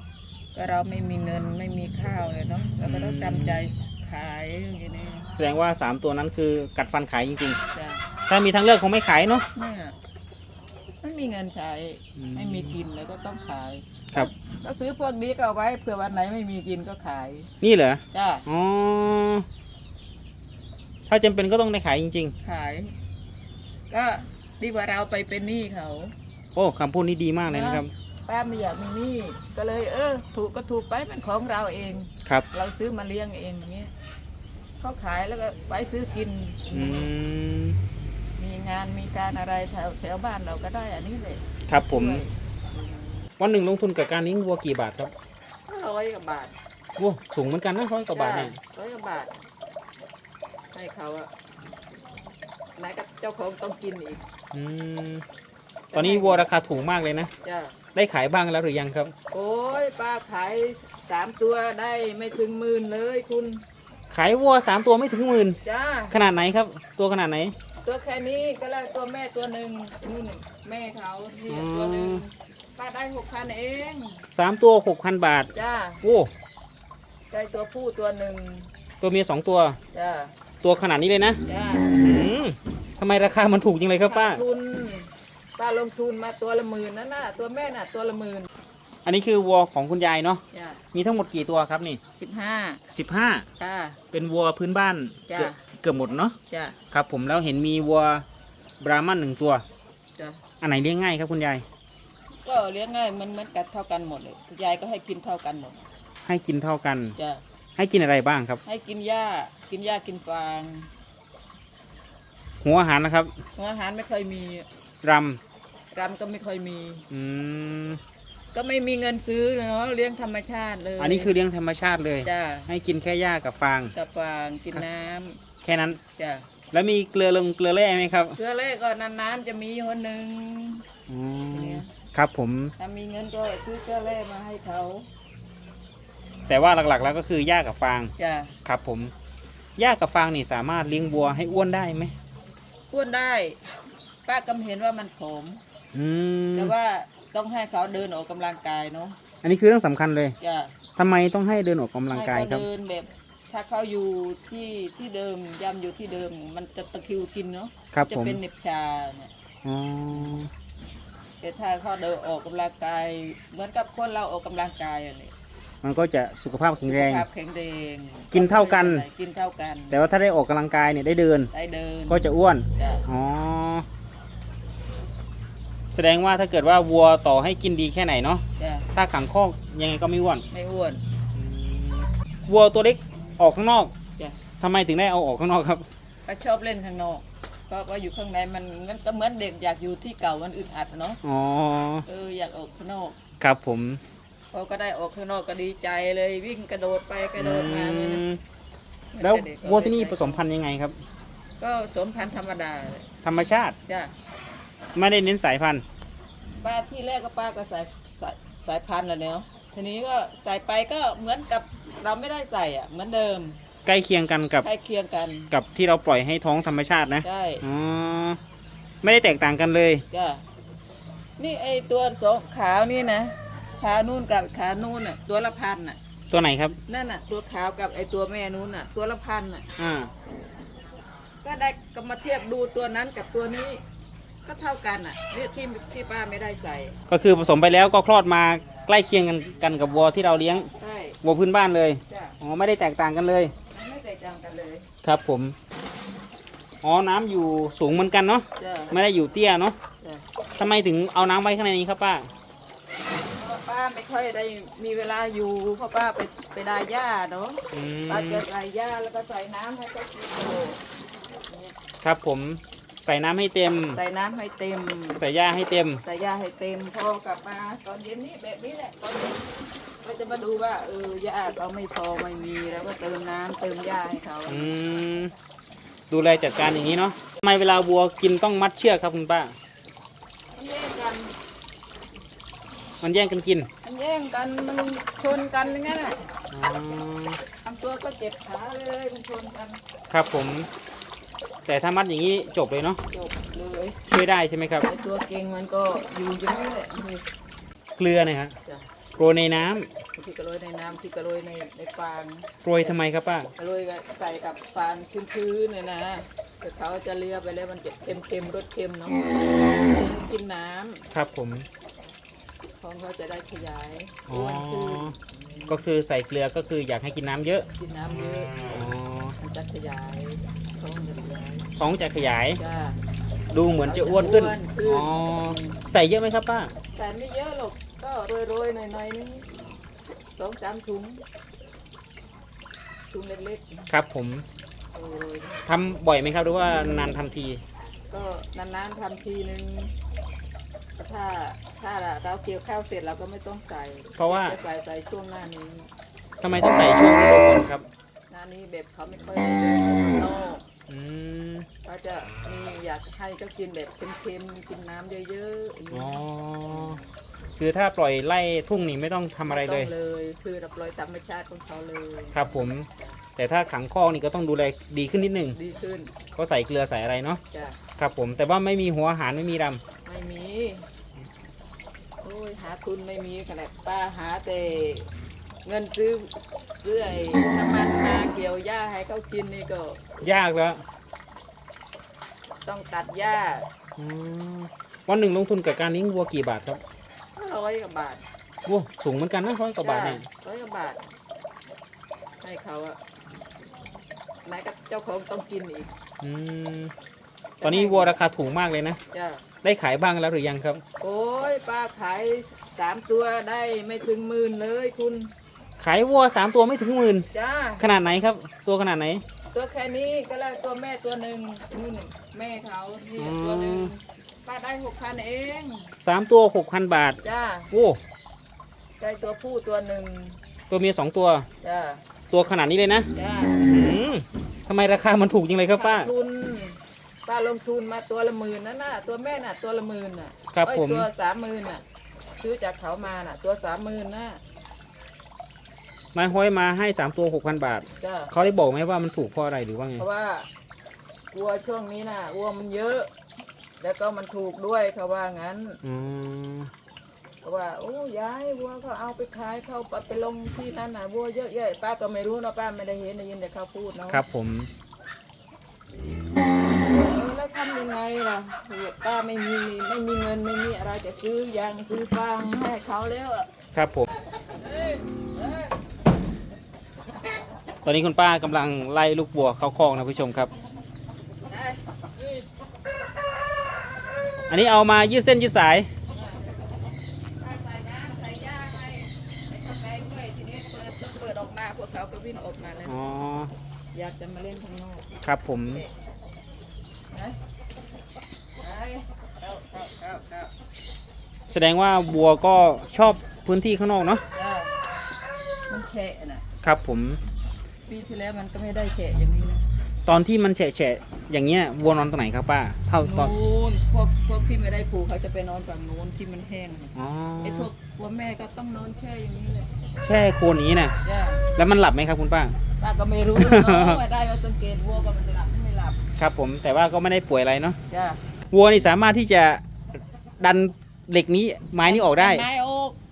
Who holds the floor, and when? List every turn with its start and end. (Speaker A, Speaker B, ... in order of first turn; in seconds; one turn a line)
Speaker A: 0.5-5.3
Speaker B: 2.9-3.7
Speaker B: 5.3-7.6
Speaker A: 7.7-8.1
Speaker B: 8.3-9.5
Speaker A: 9.5-10.0
Speaker A: 11.0-17.5
Speaker B: 12.2-12.8
Speaker B: 17.6-19.4
Speaker A: 18.1-18.5
Speaker B: 21.1-22.3
Speaker A: 22.4-22.9
Speaker A: 23.9-26.1
Speaker B: 26.6-27.9
Speaker A: 27.5-33.9
Speaker A: 34.8-37.1
Speaker B: 36.7-37.8
Speaker A: 38.4-43.2
Speaker B: 41.7-42.2
Speaker B: 43.4-45.1
Speaker A: 45.7-46.5
Speaker B: 47.0-48.6
Speaker A: 48.1-49.3
Speaker A: 50.7-51.3
Speaker A: 52.8-54.2
Speaker B: 54.5-55.2
Speaker A: 55.9-56.5
Speaker B: 55.9-57.3
Speaker A: 57.4-57.8
Speaker B: 58.0-59.1
Speaker A: 59.3-63.6
Speaker B: 64.1-65.6
Speaker A: 65.6-66.1
Speaker B: 66.1-67.5
Speaker A: 67.8-74.2
Speaker B: 71.5-72.2
Speaker B: 74.3-75.5
Speaker A: 75.5-76.0
Speaker B: 76.0-76.3
Speaker A: 77.3-78.7
Speaker B: 79.0-79.8
Speaker A: 79.9-80.3
Speaker B: 80.6-84.4
Speaker A: 81.4-82.0
Speaker A: 84.0-88.5
Speaker B: 89.0-92.0
Speaker A: 90.5-90.8
Speaker A: 92.1-92.8
Speaker B: 92.9-93.5
Speaker A: 93.6-94.0
Speaker B: 94.1-96.4
Speaker A: 95.3-95.6
Speaker A: 96.5-96.8
Speaker B: 96.9-98.2
Speaker B: 98.8-99.6
Speaker A: 100.2-100.4
Speaker B: 100.6-101.6
Speaker A: 102.4-105.8
Speaker B: 106.2-107.2
Speaker A: 107.2-107.4
Speaker B: 107.8-108.6
Speaker A: 108.6-110.9
Speaker B: 112.6-113.3
Speaker A: 113.5-114.7
Speaker B: 115.0-115.4
Speaker A: 115.9-117.1
Speaker B: 117.1-118.0
Speaker A: 118.5-121.3
Speaker B: 121.0-124.0
Speaker A: 122.2-122.7
Speaker A: 123.9-125.4
Speaker B: 125.6-126.0
Speaker A: 126.2-126.5
Speaker B: 126.7-128.4
Speaker A: 128.3-130.9
Speaker B: 131.1-132.7
Speaker A: 131.5-131.9
Speaker A: 132.8-135.1
Speaker B: 136.5-138.1
Speaker A: 138.2-138.6
Speaker B: 138.7-139.1
Speaker B: 139.8-142.1
Speaker A: 142.9-143.6
Speaker A: 144.3-145.6
Speaker B: 145.9-146.7
Speaker A: 146.6-149.2
Speaker B: 149.4-150.4
Speaker A: 150.4-150.8
Speaker B: 151.0-152.7
Speaker A: 152.1-159.3
Speaker B: 157.9-158.4
Speaker B: 159.6-160.5
Speaker A: 161.4-165.3
Speaker B: 165.8-167.3
Speaker A: 166.9-170.0
Speaker B: 168.3-169.1
Speaker B: 169.9-171.5
Speaker A: 171.5-173.1
Speaker B: 172.1-173.9
Speaker B: 175.9-180.5
Speaker A: 178.6-178.9
Speaker A: 180.5-181.0
Speaker B: 181.3-183.9
Speaker B: 184.6-185.8
Speaker A: 186.3-191.2
Speaker B: 191.2-192.1
Speaker A: 192.1-193.2
Speaker B: 193.4-194.0
Speaker A: 194.5-198.2
Speaker B: 197.4-198.4
Speaker A: 199.1-200.4
Speaker B: 199.2-201.0
Speaker A: 201.6-203.1
Speaker B: 203.2-203.8
Speaker A: 203.9-204.1
Speaker B: 204.9-205.8
Speaker A: 206.6-213.6
Speaker B: 213.9-214.7
Speaker A: 214.6-215.5
Speaker B: 215.5-218.4
Speaker A: 217.2-217.6
Speaker B: 219.0-220.1
Speaker A: 220.1-220.4
Speaker A: 221.4-226.0
Speaker B: 226.3-226.8
Speaker A: 226.9-229.7
Speaker B: 229.8-230.1
Speaker A: 231.4-233.8
Speaker A: 234.4-237.0
Speaker B: 237.1-240.7
Speaker A: 240.8-241.2
Speaker B: 241.2-243.5
Speaker A: 242.1-242.4
Speaker A: 243.7-244.9
Speaker B: 245.0-245.6
Speaker B: 246.8-249.8
Speaker A: 248.6-248.9
Speaker B: 250.6-252.3
Speaker A: 253.4-260.8
Speaker B: 257.7-258.4
Speaker A: 261.5-261.7
Speaker B: 262.0-264.0
Speaker A: 263.9-265.2
Speaker B: 265.2-266.0
Speaker A: 266.0-269.5
Speaker A: 270.0-274.8
Speaker B: 274.5-275.3
Speaker B: 276.1-279.6
Speaker A: 280.6-281.3
Speaker B: 283.0-283.7
Speaker A: 283.8-286.2
Speaker B: 286.5-287.4
Speaker A: 287.6-289.8
Speaker B: 290.1-290.7
Speaker B: 291.7-293.0
Speaker A: 293.1-294.0
Speaker B: 294.1-294.9
Speaker A: 294.8-297.3
Speaker B: 298.0-298.6
Speaker B: 299.2-299.9
Speaker A: 300.1-303.0
Speaker B: 302.6-303.5
Speaker A: 303.5-311.1
Speaker B: 311.1-311.7
Speaker A: 312.8-315.8
Speaker B: 314.3-315.2
Speaker B: 315.7-317.7
Speaker A: 317.8-318.6
Speaker B: 318.6-319.4
Speaker A: 319.4-321.7
Speaker B: 321.8-322.6
Speaker A: 322.6-323.0
Speaker B: 323.5-326.7
Speaker A: 323.8-325.8
Speaker A: 326.9-329.5
Speaker A: 330.4-331.2
Speaker A: 333.1-333.9
Speaker B: 333.9-334.5
Speaker A: 334.9-335.6
Speaker B: 335.7-337.6
Speaker A: 338.1-339.9
Speaker A: 341.0-345.9
Speaker B: 344.2-344.6
Speaker B: 346.4-347.9
Speaker A: 348.3-350.6
Speaker B: 350.9-351.7
Speaker A: 351.8-357.1
Speaker B: 355.9-357.0
Speaker B: 357.6-359.9
Speaker A: 359.5-363.2
Speaker B: 362.3-365.6
Speaker A: 365.5-366.1
Speaker B: 366.4-367.4
Speaker A: 367.5-367.8
Speaker B: 368.0-369.8
Speaker A: 370.1-370.9
Speaker A: 372.2-375.1
Speaker A: 375.6-380.0
Speaker B: 380.2-380.8
Speaker A: 382.6-383.7
Speaker B: 384.0-386.8
Speaker A: 387.4-388.2
Speaker B: 388.7-390.2
Speaker A: 389.8-391.1
Speaker A: 392.4-393.0
Speaker A: 394.4-395.9
Speaker B: 396.2-396.9
Speaker A: 397.6-398.2
Speaker B: 397.6-399.0
Speaker A: 399.1-399.4
Speaker B: 399.6-400.8
Speaker A: 401.0-405.3
Speaker B: 405.8-407.3
Speaker A: 407.3-407.9
Speaker B: 407.8-409.2
Speaker A: 409.5-415.9
Speaker B: 413.2-413.9
Speaker B: 416.0-418.0
Speaker A: 417.2-417.7
Speaker A: 419.0-420.4
Speaker B: 420.7-421.5
Speaker A: 421.6-422.0
Speaker B: 422.3-426.1
Speaker A: 423.1-423.6
Speaker A: 425.7-431.8
Speaker B: 430.5-431.1
Speaker A: 432.4-434.4
Speaker B: 436.1-440.1
Speaker A: 438.0-438.3
Speaker A: 440.0-440.5
Speaker A: 441.3-443.1
Speaker A: 443.8-445.8
Speaker B: 445.8-446.7
Speaker A: 447.4-454.2
Speaker B: 454.1-454.7
Speaker A: 456.8-463.5
Speaker B: 463.7-464.1
Speaker A: 464.6-465.8
Speaker B: 467.8-470.5
Speaker A: 471.5-472.5
Speaker B: 474.5-475.9
Speaker A: 476.1-476.5
Speaker A: 477.4-483.1
Speaker B: 482.9-483.5
Speaker A: 483.9-485.1
Speaker B: 485.2-485.8
Speaker A: 487.1-487.4
Speaker A: 488.6-490.5
Speaker B: 491.5-494.2
Speaker A: 494.3-494.8
Speaker A: 495.7-496.4
Speaker B: 496.6-497.2
Speaker A: 497.9-499.7
Speaker B: 500.1-503.3
Speaker A: 503.0-509.7
Speaker B: 507.0-507.7
Speaker B: 510.0-511.0
Speaker A: 511.0-511.5
Speaker B: 511.5-512.6
Speaker A: 512.8-516.0
Speaker B: 513.4-514.0
Speaker B: 516.2-517.8
Speaker A: 517.9-518.2
Speaker B: 518.5-519.6
Speaker B: 520.4-522.5
Speaker A: 521.8-523.0